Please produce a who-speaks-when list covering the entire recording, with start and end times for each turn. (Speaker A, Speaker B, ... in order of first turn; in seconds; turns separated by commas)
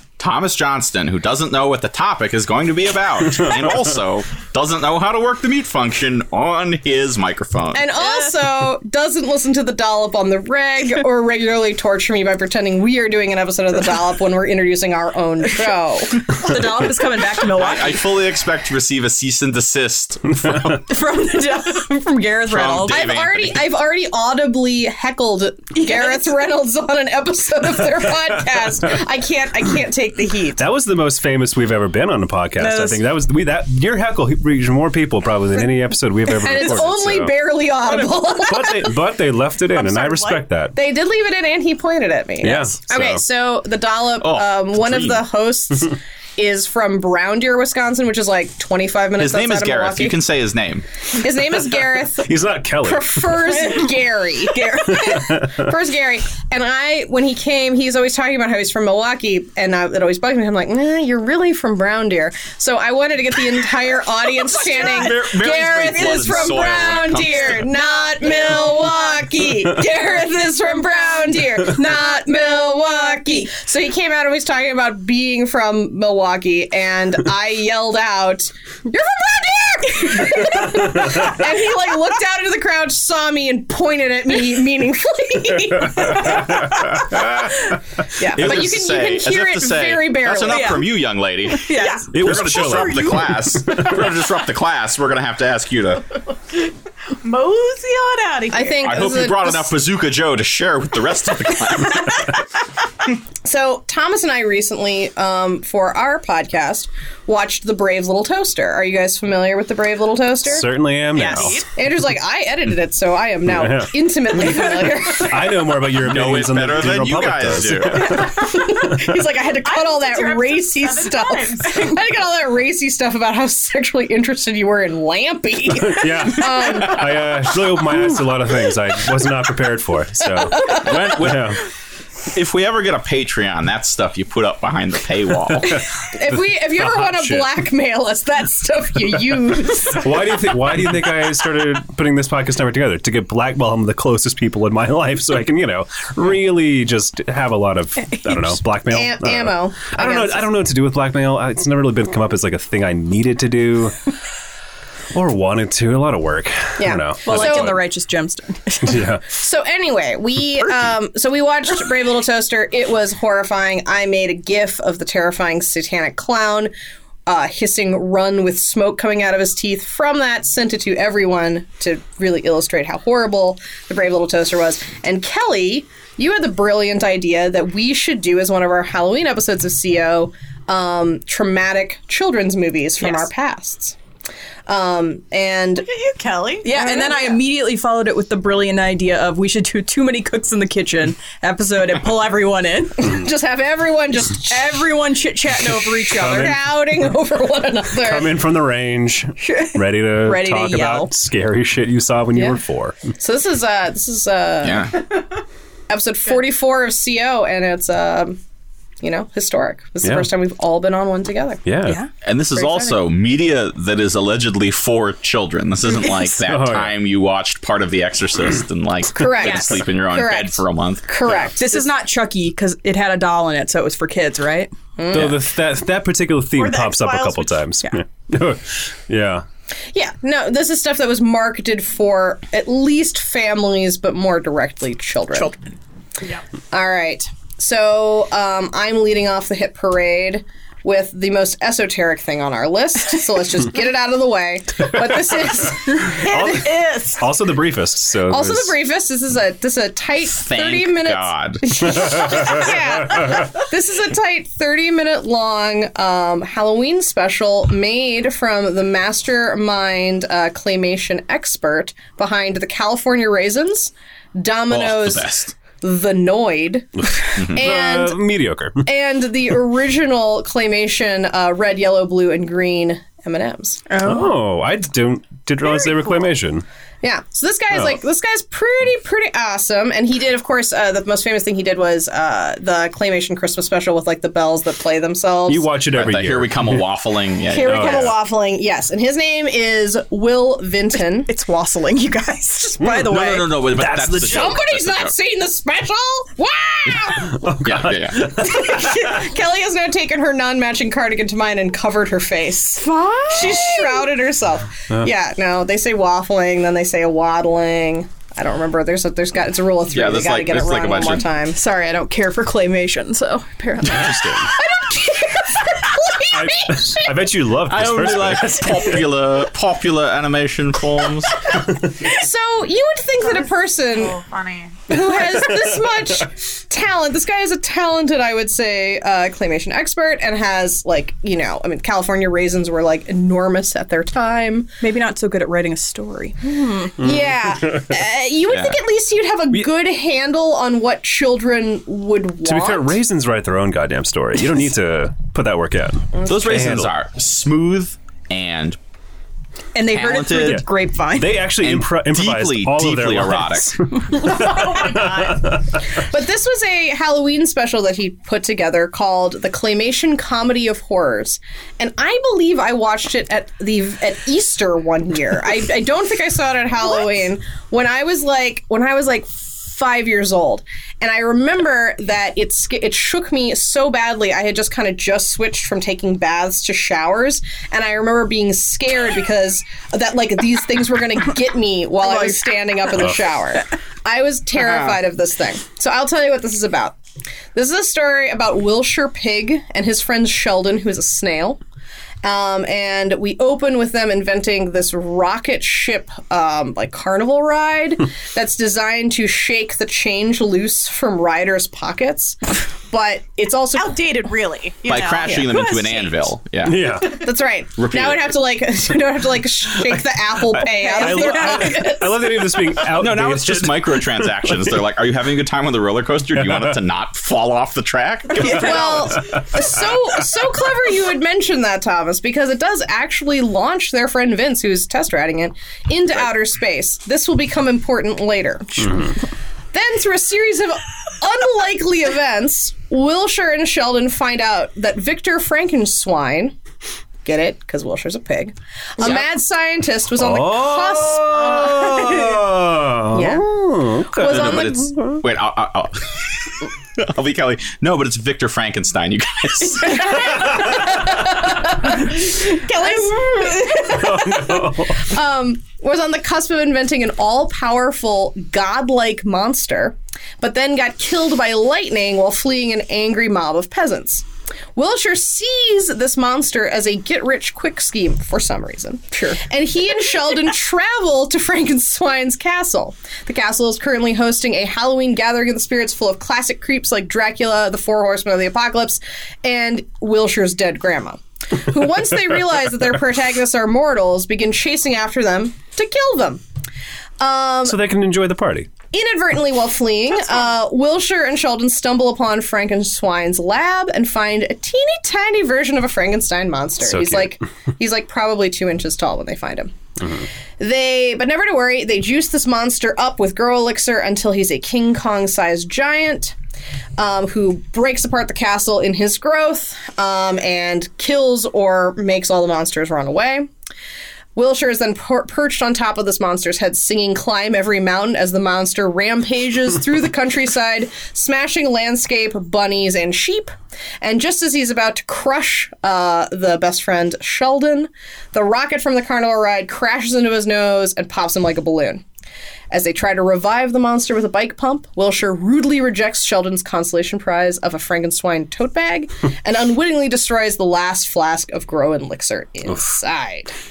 Speaker A: 0.2-7.9, Speaker B: 7.7-16.3, Speaker C: 16.2-18.1, Speaker A: 17.5-20.8, Speaker C: 20.7-23.1, Speaker A: 22.4-23.7, Speaker B: 22.9-30.6, Speaker C: 25.8-26.2, Speaker D: 30.6-37.3, Speaker C: 32.6-33.0, Speaker B: 36.4-39.0, Speaker D: 38.4-40.7, Speaker E: 39.7-40.5, Speaker B: 40.8-50.2, Speaker D: 42.4-43.2, Speaker A: 44.2-45.2, Speaker A: 49.2-50.9, Speaker B: 51.1-87.5, Speaker D: 52.2-53.5, Speaker C: 53.6-53.9, Speaker C: 54.5-55.0, Speaker D: 55.0-55.7, Speaker A: 64.5-67.7, Speaker E: 64.8-65.1, Speaker D: 85.9-87.5, Speaker B: 88.2-90.9, Speaker A: 88.3-96.1, Speaker C: 90.5-90.9, Speaker C: 91.5-93.1, Speaker B: 91.8-92.0, Speaker D: 92.1-94.1, Speaker E: 97.2-99.1, Speaker B: 98.5-99.7, Speaker A: 98.8-102.5, Speaker B: 103.4-110.7, Speaker D: 110.5-111.6, Speaker E: 111.2-111.6, Speaker C: 111.2-111.6, Speaker B: 111.8-115.6, Speaker D: 113.5-119.2, Speaker A: 115.9-118.3, Speaker B: 118.0-127.2, Speaker E: 119.7-121.9, Speaker D: 125.8-131.6, Speaker B: 130.5-131.0, Speaker A: 130.7-131.6, Speaker A: 132.3-135.8, Speaker D: 135.5-137.5, Speaker B: 136.0-140.3, Speaker D: 139.5-154.0, Speaker B: 148.9-150.5, Speaker D: 155.1-157.8, Speaker B: 156.8-157.8, Speaker C: 157.2-159.0, Speaker D: 158.8-159.2, Speaker B: 159.2-166.7, Speaker B: 167.3-184.0, Speaker C: 183.0-183.3, Speaker B: 184.7-185.9, Speaker E: 185.8-186.7, Speaker C: 186.6-193.2, Speaker B: 186.7-187.4, Speaker B: 193.0-194.8, Speaker C: 194.5-196.6, Speaker D: 196.0-196.6, Speaker B: 196.2-198.4, Speaker D: 198.0-203.0, Speaker C: 199.5-201.1, Speaker B: 202.3-202.6, Speaker B: 203.2-205.0, Speaker A: 204.6-205.0, Speaker B: 205.9-208.4, Speaker B: 209.0-211.6, Speaker D: 210.0-210.3, Speaker D: 211.7-212.0, Speaker C: 211.8-212.1, Speaker A: 212.2-221.1, Speaker D: 216.4-217.0, Speaker B: 219.1-221.9, Speaker C: 219.4-219.8, Speaker C: 221.6-224.7, Speaker B: 225.0-225.4, Speaker D: 225.1-229.4, Speaker E: 226.6-227.6, Speaker B: 229.9-235.6, Speaker B: 236.7-246.5, Speaker E: 246.0-247.2, Speaker D: 246.2-248.8, Speaker B: 248.3-265.3, Speaker A: 250.4-252.3, Speaker A: 264.7-265.6, Speaker B: 265.8-268.2, Speaker A: 267.4-267.6, Speaker D: 267.5-268.9, Speaker B: 268.8-273.8, Speaker C: 273.9-274.3, Speaker D: 274.0-276.6, Speaker B: 277.0-285.7, Speaker D: 285.5-286.9, Speaker A: 285.9-288.1, Speaker B: 287.5-291.3, Speaker D: 287.6-288.1, Speaker C: 291.1-293.6, Speaker D: 292.8-293.1, Speaker A: 293.0-295.1, Speaker D: 293.7-294.6, Speaker B: 294.2-297.6, Speaker D: 297.3-299.1, Speaker A: 297.6-298.4, Speaker B: 298.1-311.6, Speaker C: 302.8-304.1, Speaker A: 309.9-311.3, Speaker C: 311.5-314.2, Speaker D: 313.9-314.5, Speaker B: 314.5-317.2, Speaker D: 316.3-319.1, Speaker A: 317.7-321.6, Speaker B: 322.0-324.2, Speaker E: 323.2-324.8, Speaker B: 324.9-334.7, Speaker C: 334.8-337.1, Speaker B: 337.0-343.0, Speaker A: 338.5-338.8, Speaker D: 342.4-346.9, Speaker B: 346.1-346.6, Speaker A: 346.3-348.8, Speaker C: 349.8-351.4, Speaker A: 349.9-350.6, Speaker D: 350.3-355.8, Speaker A: 351.6-353.8, Speaker B: 354.2-355.2, Speaker E: 354.3-355.4, Speaker B: 355.9-387.0, Speaker C: 382.1-382.4, Speaker B: 387.6-391.6, Speaker B: 392.2-404.0, Speaker E: 403.8-406.3, Speaker A: 404.9-407.1, Speaker D: 406.6-407.3, Speaker B: 407.0-412.8, Speaker A: 407.8-408.3, Speaker D: 409.8-414.8, Speaker A: 412.9-419.2, Speaker D: 416.3-416.8, Speaker C: 418.4-418.9, Speaker B: 418.5-429.1, Speaker D: 419.3-419.8, Speaker B: 429.7-436.6, Speaker B: 437.2-442.4, Speaker D: 440.2-445.2, Speaker B: 443.1-443.5, Speaker B: 444.2-444.7, Speaker A: 444.2-450.7, Speaker B: 449.9-464.2, Speaker D: 450.3-450.9, Speaker C: 452.3-453.9, Speaker D: 453.9-455.1, Speaker B: 464.8-486.4, Speaker B: 487.2-487.8, Speaker D: 487.6-488.7, Speaker B: 488.9-499.8, Speaker D: 496.9-497.4, Speaker D: 500.0-500.3, Speaker B: 500.6-506.4, Speaker B: 507.0-513.5, Speaker B: 514.4-532.0, Speaker B: 532.7-543.5